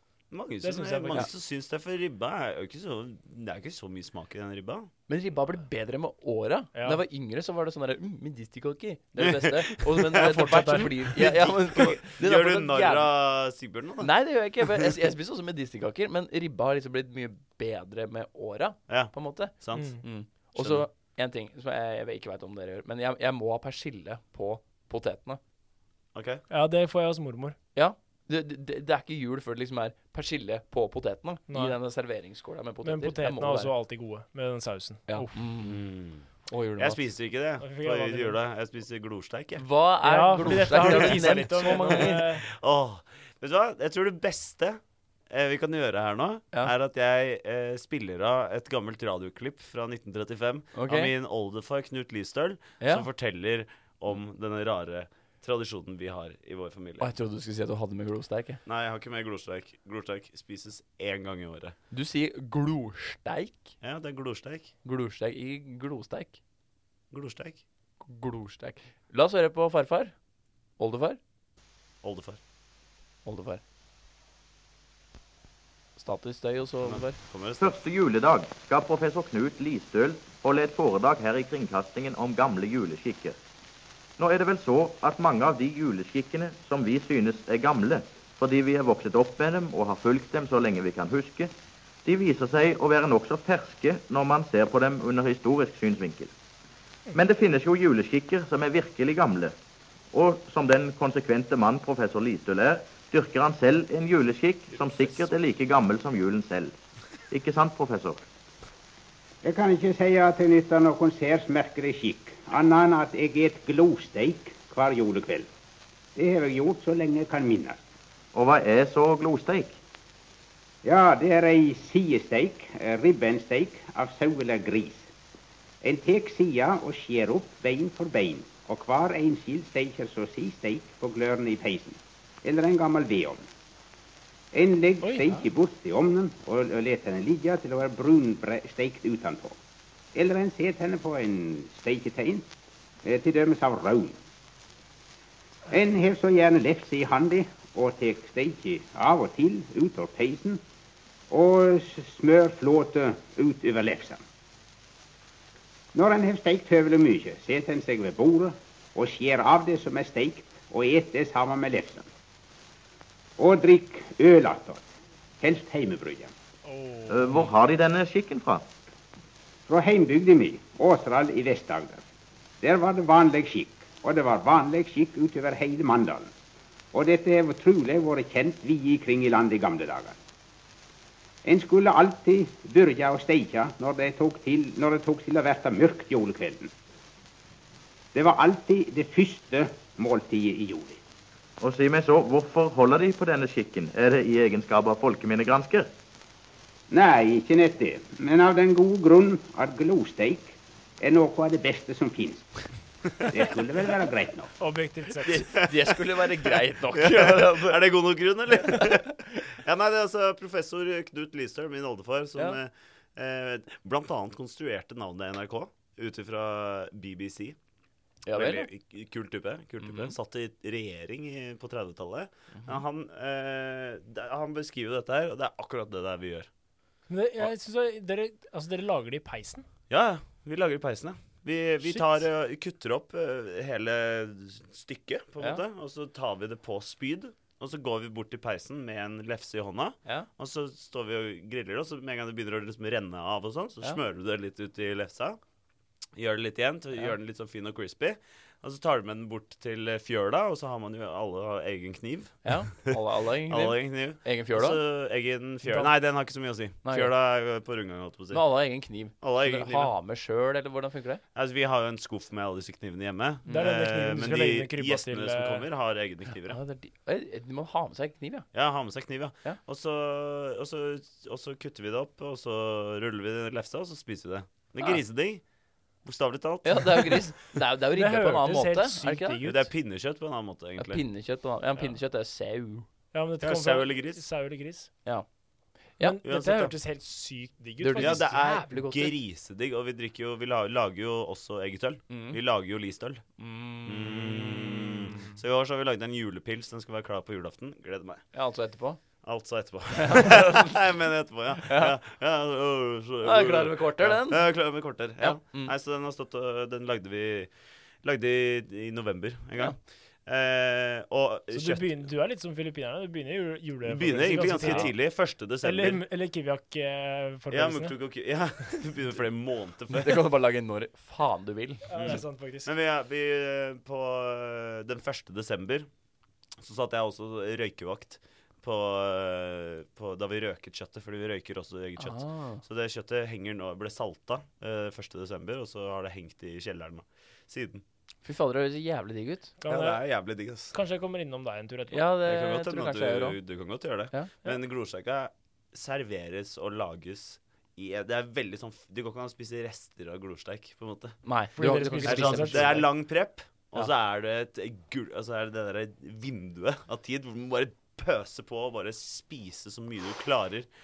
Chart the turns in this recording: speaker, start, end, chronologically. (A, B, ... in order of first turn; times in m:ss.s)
0:00.3-0:04.9 A
0:00.6-0:01.3 B
0:05.1-0:13.1 C
0:06.7-0:07.0 B
0:09.2-0:14.1 A
0:10.2-0:11.1 B
0:14.0-0:25.4 C
0:18.9-0:20.9 A
0:19.7-0:20.0 B
0:26.1-0:26.4 A
0:26.5-0:27.6 B
0:27.7-0:33.7 C
0:31.5-0:31.8 B
0:32.8-0:35.5 B
0:35.1-0:35.8 C
0:35.6-0:36.2 A
0:36.5-0:37.0 C
0:36.8-0:39.6 A
0:37.6-0:38.4 B
0:39.6-0:42.2 C
0:40.0-0:42.4 B
0:40.4-0:57.1 A
0:50.7-0:51.1 C
0:52.8-0:53.1 C
0:57.0-0:58.6 C
0:58.6-1:01.8 A
1:01.9-1:03.7 C
1:03.8-1:04.7 A
1:04.8-1:06.4 C
1:07.1-1:07.6 A
1:08.0-1:10.1 C
1:10.8-1:11.2 C
1:12.0-1:12.4 A
1:13.2-1:13.6 C
1:16.0-1:17.2 C
1:16.8-1:17.8 A
1:17.6-1:23.4 D
1:24.2-1:31.5 D
1:32.0-1:36.3 D
1:37.1-1:39.5 D
1:40.1-1:46.7 D
1:47.3-1:48.2 D
1:49.4-1:55.5 E
1:56.2-1:57.8 E
1:58.3-1:59.8 D
2:00.8-2:05.1 E
2:05.8-2:13.4 E
2:14.5-2:19.6 E
2:15.0-2:15.3 B
2:20.1-2:22.5 E
2:23.0-2:24.2 E
2:25.7-2:30.6 E
2:31.3-2:34.2 E
2:35.9-2:42.1 E
2:43.4-2:44.8 E
2:45.4-2:46.3 E
2:46.6-2:47.3 B
2:47.1-2:48.7 D
2:49.7-2:52.0 E
2:52.6-2:56.3 E
2:56.9-3:00.2 E
3:01.4-3:06.7 E
3:08.1-3:11.0 E
3:11.6-3:15.9 D
3:16.9-3:22.6 E
3:23.3-3:24.5 E
3:24.6-3:25.5 B
3:25.2-3:27.8 C
3:25.6-3:25.9 A
3:26.9-3:37.6 A
3:28.6-3:29.1 C
3:38.2-3:38.7 C
3:38.3-3:46.5 A
3:39.8-3:40.1 C
3:47.1-3:49.6 B
3:49.9-4:05.4 A
4:06.2-4:13.0 A
4:12.4-4:14.8 C
4:13.5-4:18.4 A
4:16.8-4:17.1 C
4:18.3-4:21.2 C
4:19.2-4:19.9 A
4:21.3-4:26.6 A
4:23.5-4:25.6 B
4:26.5-4:28.5 C
4:28.5-4:35.4 A
4:36.0-4:37.3 A
4:36.6-4:39.4 C
4:37.9-4:39.7 B
4:39.4-4:41.0 A
4:40.8-4:42.9 C
4:43.1-4:44.9 B
4:43.4-4:44.2 A
4:46.0-4:48.6 B
4:46.2-4:46.7 A
4:47.8-4:49.1 C
4:48.0-4:53.2 A
4:52.1-4:52.4 C
4:53.4-4:55.2 C
4:53.8-4:58.2 A
4:58.3-4:59.0 C
4:59.2-5:07.5 A
5:00.0-5:00.8 C
5:01.6-5:01.9 C
5:03.2-5:04.4 C
5:05.2-5:05.7 C
5:08.0-5:12.0 A
5:11.5-5:15.0 B
5:13.8-5:16.0 A
5:14.5-5:14.9 C
5:15.6-5:18.0 B
5:17.5-5:20.2 A
5:19.9-5:22.2 C
5:21.9-5:22.7 B
5:21.9-5:25.9 A
5:26.6-5:37.8 A
5:32.0-5:32.6 C
5:38.2-5:39.5 C
5:39.6-5:40.0 B
5:39.7-5:40.7 A
5:40.7-5:42.1 B
5:41.9-5:43.4 C
5:42.2-5:51.2 A
5:51.2-5:52.9 C
5:51.6-5:52.8 B
5:52.0-6:00.7 A